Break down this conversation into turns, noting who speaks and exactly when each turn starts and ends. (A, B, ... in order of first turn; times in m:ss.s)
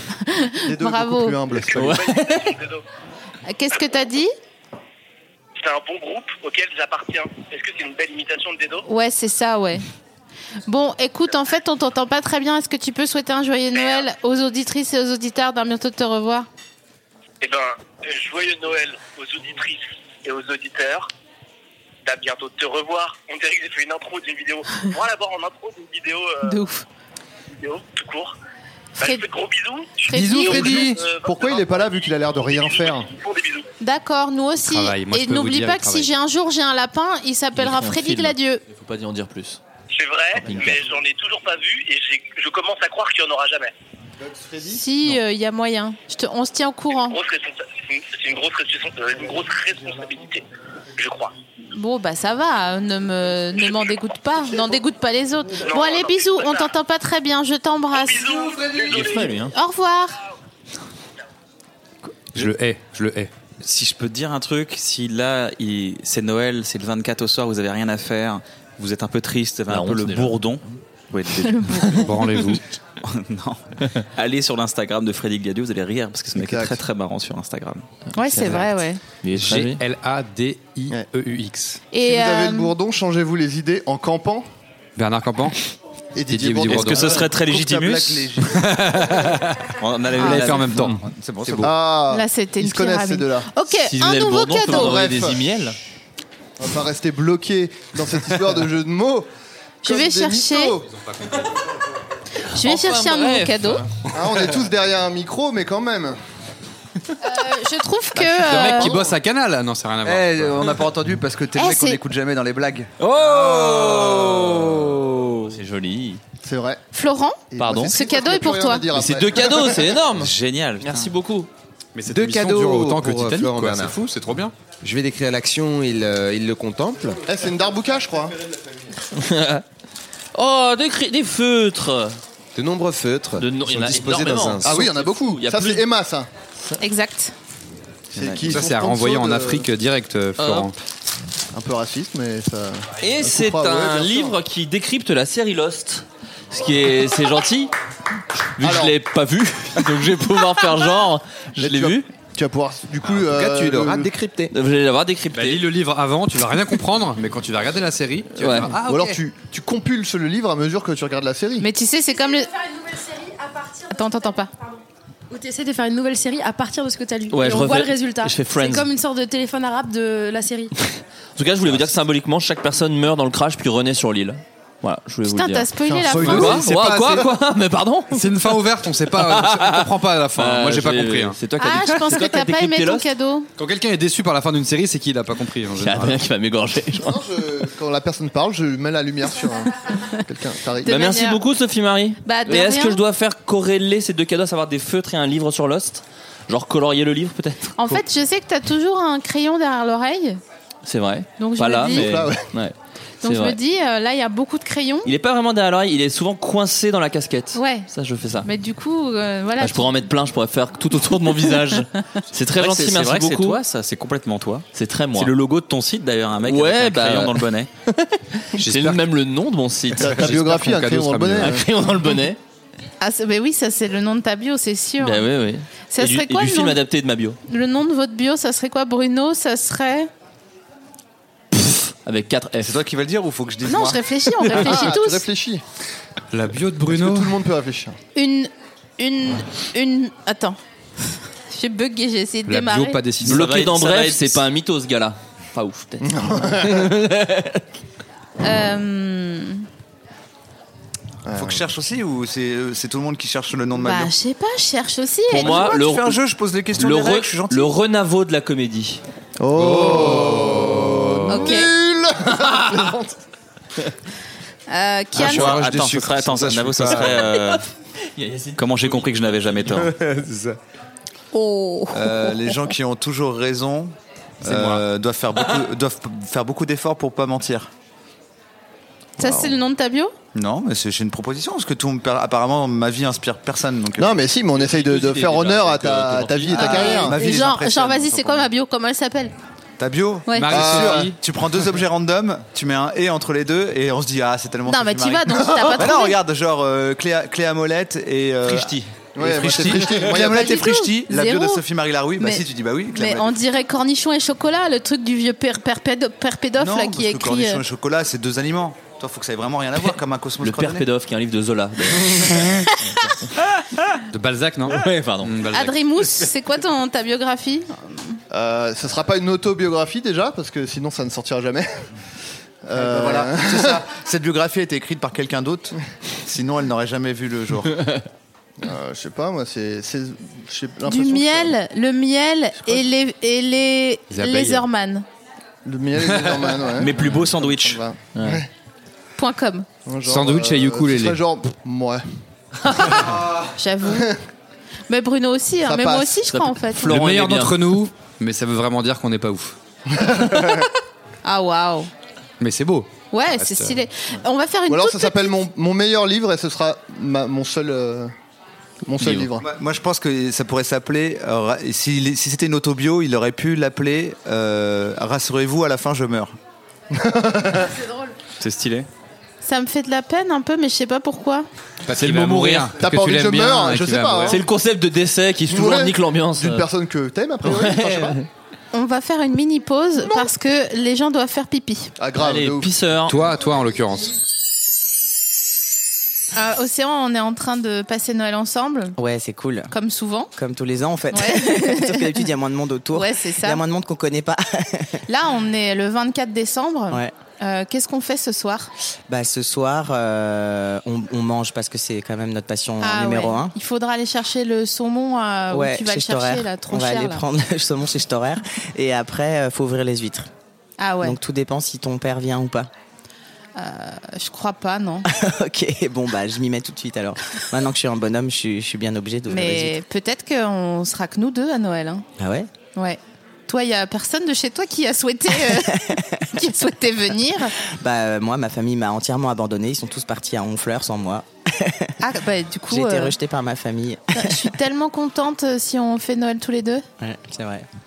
0:00.2-0:01.4 A
0:00.6-0:02.0 B
0:01.5-0:02.8 C
0:01.7-0:02.6 D
0:03.5-0:04.3 A
0:05.6-0:08.9 C
0:08.9-0:09.8 A
0:10.7-0:16.5 A
0:13.7-0:14.1 C
0:17.4-0:21.1 C
0:22.0-0:26.6 C
0:26.4-0:26.8 A
0:27.6-0:28.4 C
0:29.0-0:29.2 A
0:29.0-0:33.7 C
0:30.0-0:30.8 A
0:30.2-0:33.1 B
0:33.8-0:38.6 A
0:34.6-0:36.1 E
0:37.5-0:39.6 D
0:39.9-0:43.7 C
0:40.4-0:40.8 D
0:44.2-0:44.8 B
0:44.6-0:47.2 A
0:46.9-0:50.4 C
0:51.0-0:51.3 C
0:51.7-0:58.3 A
0:53.6-0:54.0 C
0:55.6-0:56.7 C
0:57.9-0:59.4 C
0:58.8-0:59.5 D
0:59.5-1:00.2 A
1:02.3-1:03.3 E
1:03.6-1:12.0 F
1:09.7-1:10.6 D
1:11.5-1:12.0 A
1:12.0-1:12.6 E
1:13.0-1:13.6 F
1:14.2-1:17.8 F
1:16.3-1:16.8 B
1:18.1-1:19.0 A
1:18.2-1:18.7 D
1:19.2-1:19.8 D
1:19.4-1:21.8 E
1:21.9-1:22.7 A
1:22.0-1:24.4 B
1:25.0-1:25.5 E
1:26.1-1:27.3 B
1:26.3-1:27.3 E
1:26.6-1:28.3 F
1:27.0-1:28.6 G
1:28.5-1:29.4 E
1:29.8-1:31.7 F
1:30.2-1:30.6 A
1:30.2-1:31.0 E
1:30.4-1:31.7 G
1:31.6-1:33.5 B
1:32.1-1:35.0 A
1:33.8-1:35.8 D
1:34.7-1:35.4 B
1:36.6-1:39.3 B
1:39.8-1:40.8 A
1:39.8-1:40.9 B
1:40.9-1:41.2 E
1:42.5-1:43.8 A
1:42.6-1:43.8 D
1:44.1-1:46.2 B
1:47.2-1:49.0 A
1:48.2-1:50.7 E
1:48.3-1:49.1 B
1:50.0-1:52.9 G
1:51.6-1:52.0 A
1:53.0-1:56.2 D
1:56.4-1:56.8 B
1:56.9-1:58.8 A
1:57.5-2:00.0 B
1:57.6-1:58.0 D
1:58.9-2:01.5 D
2:00.2-2:01.1 F
2:01.9-2:04.5 E
2:02.1-2:04.0 H
2:04.8-2:07.2 H
2:07.2-2:08.3 B
2:09.1-2:09.6 D
2:10.3-2:12.2 D
2:12.6-2:14.8 H
2:13.4-2:15.8 D
2:14.6-2:16.3 B
2:16.8-2:17.3 A
2:18.1-2:19.6 B
2:18.2-2:18.6 G
2:18.4-2:20.7 E
2:20.4-2:20.7 D
2:21.5-2:24.4 B
2:23.0-2:27.7 D
2:28.6-2:32.1 D
2:28.6-2:29.0 B
2:31.6-2:34.1 B
2:33.2-2:34.5 H
2:34.5-2:35.6 D
2:35.3-2:39.2 E
2:38.3-2:38.8 D
2:38.8-2:41.7 B
2:41.6-2:42.5 A
2:42.1-2:50.7 I
2:43.9-2:44.5 A
2:47.3-2:48.9 D
2:51.4-2:58.6 D
2:55.2-2:56.6 A
2:55.8-2:57.1 B
2:56.2-2:57.2 E
2:58.1-3:01.4 E
2:59.1-3:03.1 D
3:01.6-3:03.5 A
3:03.6-3:06.2 E
3:05.8-3:07.2 D
3:06.9-3:11.0 B
3:10.8-3:11.4 A
3:10.8-3:18.0 D
3:12.2-3:13.0 A
3:17.8-3:20.4 A
3:20.8-3:23.6 D
3:21.4-3:22.2 A
3:21.9-3:22.5 B
3:23.2-3:25.1 A
3:25.0-3:28.5 D
3:27.5-3:27.9 A
3:28.4-3:30.0 A
3:29.6-3:33.6 D
3:31.5-3:31.8 A
3:32.6-3:37.7 F
3:34.7-3:35.3 D
3:36.4-3:38.0 D
3:38.5-3:40.7 D
3:39.9-3:42.2 B
3:40.1-3:41.6 E
3:41.4-3:42.4 D
3:43.0-3:45.3 A
3:45.0-3:47.4 D
3:45.9-3:46.8 A
3:47.5-3:50.1 A
3:51.5-3:52.8 D
3:52.6-3:54.0 G
3:53.6-3:55.2 A
3:54.5-3:55.6 B
3:56.3-3:57.3 E
3:56.9-3:58.0 B
3:58.1-4:00.6 A
4:01.5-4:03.0 A
4:02.5-4:03.9 E
4:03.2-4:07.6 D
4:03.3-4:04.4 F
4:06.0-4:06.9 B
4:08.4-4:09.6 A
4:11.2-4:11.6 B
4:11.3-4:14.1 G
4:13.8-4:15.8 A
4:15.3-4:16.2 D
4:15.3-4:17.7 G
4:16.8-4:19.0 D
4:19.4-4:23.1 B
4:19.8-4:20.4 E
4:21.3-4:21.7 A
4:24.7-4:25.5 A
4:25.1-4:27.6 F
4:25.2-4:27.1 H
4:27.0-4:27.6 D
4:28.2-4:29.8 D
4:28.6-4:29.9 F
4:31.3-4:32.2 A
4:31.9-4:37.7 G
4:34.4-4:34.8 E
4:39.2-4:40.1 A
4:39.2-4:39.5 G
4:40.3-4:44.2 G
4:44.0-4:47.2 B
4:44.5-4:47.1 D
4:46.5-4:48.5 G
4:46.5-4:49.3 A
4:49.8-5:03.3 G
4:50.4-4:51.1 E
4:50.5-4:51.1 B
4:54.7-4:56.2 A
4:55.4-4:55.9 B
4:58.4-4:58.8 D
4:59.2-5:00.6 B
5:00.1-5:01.6 A
5:02.2-5:07.6 A
5:06.6-5:10.8 G
5:09.8-5:13.3 D
5:14.1-5:15.7 E
5:14.6-5:15.5 D
5:15.5-5:18.2 A
5:18.3-5:21.7 B
5:22.6-5:23.8 B
5:22.7-5:27.8 G
5:28.6-5:31.6 B
5:30.8-5:35.0 A
5:34.1-5:34.6 E
5:35.6-5:38.5 B
5:36.8-5:37.8 F
5:38.1-5:38.4 D
5:39.2-5:39.7 A
5:39.8-5:42.0 B
5:40.0-5:41.2 E
5:42.8-5:43.0 A
5:43.6-5:44.1 A
5:43.8-5:44.2 B
5:44.9-5:46.9 A
5:45.6-5:46.2 B
5:46.2-5:47.8 D
5:46.8-5:49.5 E
5:49.9-5:50.7 B
5:51.2-5:51.9 A
5:52.4-5:53.8 E
5:53.1-5:55.3 A
5:54.7-5:58.1 B
5:58.8-5:59.5 B
5:59.0-6:06.3 G
6:06.9-6:07.7 B
6:07.8-6:08.1 I
6:08.4-6:08.9 F
6:09.4-6:11.4 A
6:11.9-6:14.4 E
6:11.9-6:12.7 D
6:12.7-6:14.4 B
6:14.2-6:16.7 D
6:15.5-6:18.2 B
6:17.4-6:18.3 D
6:18.7-6:21.9 A
6:22.0-6:22.7 B
6:22.2-6:23.2 D
6:23.0-6:24.1 E
6:26.3-6:28.9 A
6:29.0-6:29.7 J
6:29.7-6:30.3 A
6:30.4-6:35.0 J
6:31.1-6:32.2 A
6:32.9-6:33.6 A
6:35.1-6:38.7 A
6:39.1-6:43.5 J
6:42.8-6:47.2 A
6:45.5-6:50.3 J
6:50.8-6:51.2 A
6:51.0-6:52.7 J
6:53.6-6:55.0 A
6:55.1-6:59.8 J
6:59.3-7:02.0 A
7:02.2-7:02.5 J
7:02.8-7:07.5 A
7:05.4-7:06.2 J
7:07.8-7:11.9 J
7:12.0-7:13.1 A
7:12.7-7:14.5 J
7:14.1-7:16.8 A
7:17.0-7:17.7 J